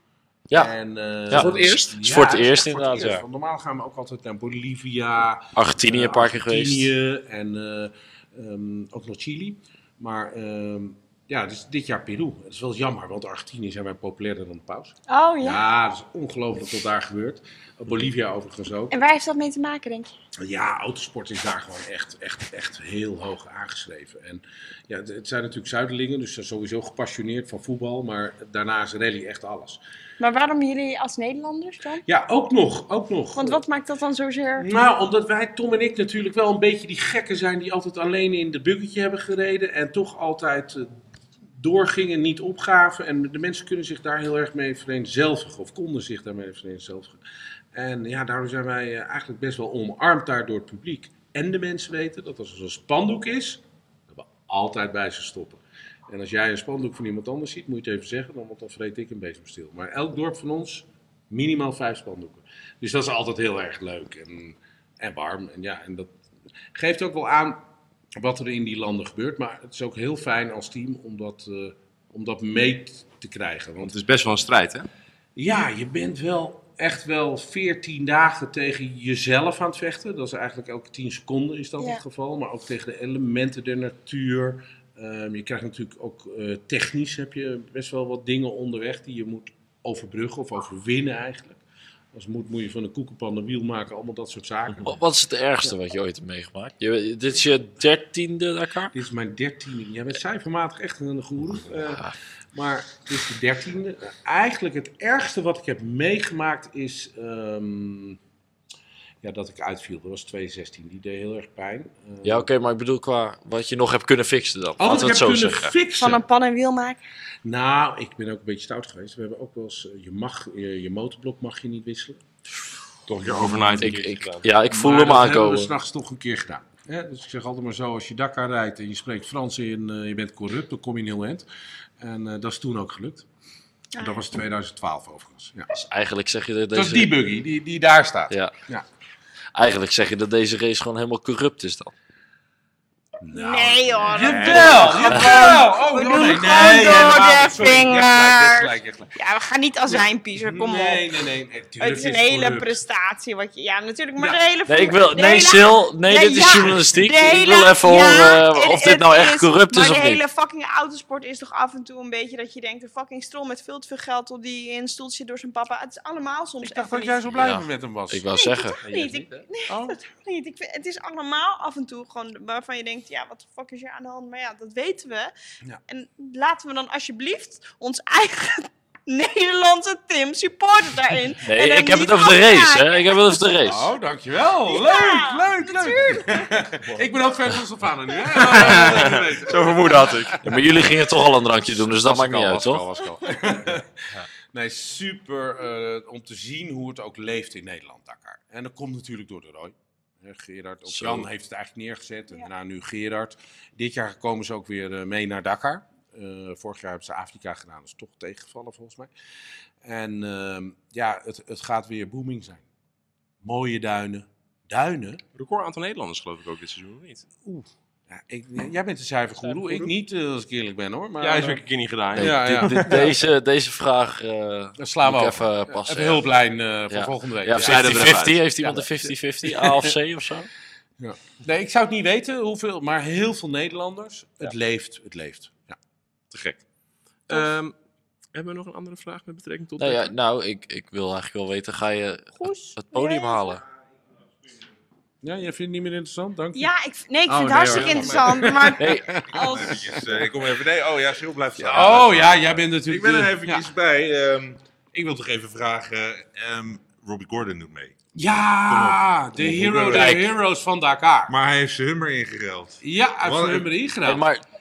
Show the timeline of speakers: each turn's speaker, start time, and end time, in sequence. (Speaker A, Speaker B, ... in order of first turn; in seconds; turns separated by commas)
Speaker A: 0.5-19.0, Speaker B: 1.3-3.2, Speaker C: 1.3-2.0, Speaker B: 5.6-6.9, Speaker D: 15.1-15.6, Speaker D: 18.9-20.1, Speaker A: 20.4-29.8, Speaker D: 30.2-32.0, Speaker A: 32.1-33.6, Speaker D: 33.4-34.7, Speaker A: 34.6-40.9, Speaker A: 41.6-47.2, Speaker A: 47.7-66.1, Speaker A: 66.7-67.6, Speaker A: 68.2-73.9, Speaker C: 73.8-74.9, Speaker A: 75.4-91.6, Speaker A: 92.1-95.0, Speaker B: 94.8-98.9, Speaker A: 98.9-108.2, Speaker A: 109.2-112.5, Speaker B: 112.2-115.7, Speaker A: 114.8-116.2, Speaker D: 115.9-117.0, Speaker A: 117.4-122.2, Speaker C: 123.1-124.5, Speaker B: 123.3-125.7, Speaker A: 123.4-123.9, Speaker A: 124.7-131.4, Speaker A: 132.0-133.2, Speaker D: 133.9-134.2, Speaker A: 134.0-135.7, Speaker B: 135.7-137.1, Speaker A: 136.7-138.8, Speaker B: 139.6-141.9, Speaker A: 143.2-149.2, Speaker D: 143.3-151.2, Speaker E: 144.2-145.2, Speaker A: 149.9-152.8, Speaker D: 151.8-167.2, Speaker B: 154.7-160.2, Speaker A: 166.6-168.2, Speaker B: 167.3-168.8, Speaker D: 168.3-175.3, Speaker C: 168.8-169.5, Speaker A: 169.7-170.0, Speaker D: 175.9-183.4, Speaker B: 181.4-183.9, Speaker A: 183.7-190.7, Speaker D: 184.7-186.7, Speaker C: 188.4-190.5, Speaker B: 190.3-192.9, Speaker A: 192.0-209.1, Speaker C: 192.1-193.1, Speaker B: 200.9-201.3, Speaker A: 209.8-212.7, Speaker A: 213.4-215.2, Speaker C: 215.3-217.2, Speaker A: 217.4-221.6, Speaker C: 221.2-223.1, Speaker A: 222.2-223.1, Speaker B: 222.2-226.3, Speaker A: 224.8-228.8, Speaker B: 226.9-230.5, Speaker C: 227.6-228.8, Speaker A: 229.4-229.9, Speaker A: 231.0-235.8, Speaker A: 236.3-236.6, Speaker C: 237.3-237.7, Speaker C: 238.3-240.1, Speaker B: 239.8-243.6, Speaker D: 242.3-243.6, Speaker A: 245.2-246.7, Speaker D: 246.6-250.0, Speaker A: 247.3-250.3, Speaker B: 247.7-248.1, Speaker B: 248.8-249.2, Speaker E: 249.3-257.9, Speaker A: 251.6-253.7, Speaker A: 258.1-261.3, Speaker E: 258.7-260.2, Speaker B: 259.7-260.3, Speaker E: 261.3-263.7, Speaker A: 262.8-264.3, Speaker B: 264.1-264.4